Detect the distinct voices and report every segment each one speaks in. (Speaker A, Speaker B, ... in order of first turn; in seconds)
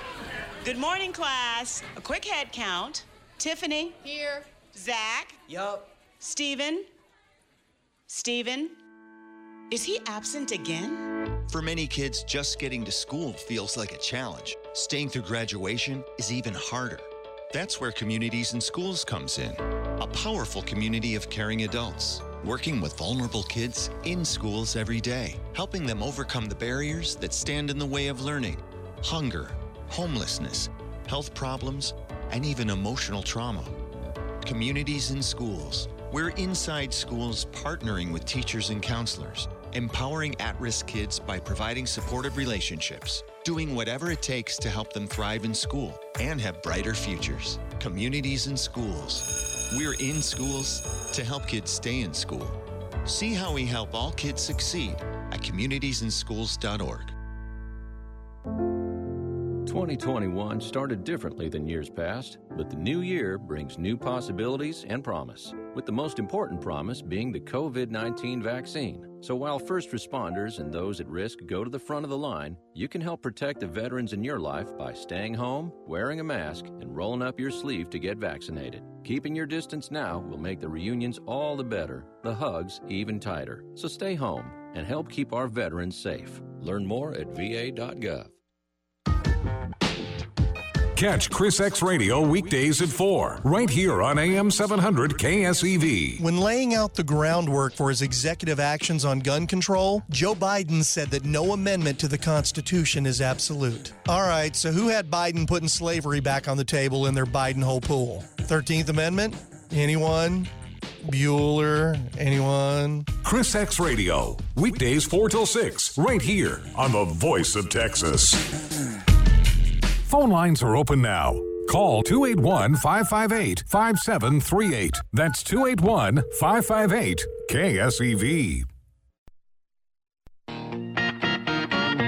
Speaker A: 0.6-6.9, 8.1-8.8, 9.7-11.2
Speaker B: 11.5-33.8, 34.4-57.1
Speaker C: 59.6-88.3
Speaker D: 91.0-96.2, 113.2-118.5, 120.1-128.7
Speaker E: 96.2-110.5, 111.0-113.1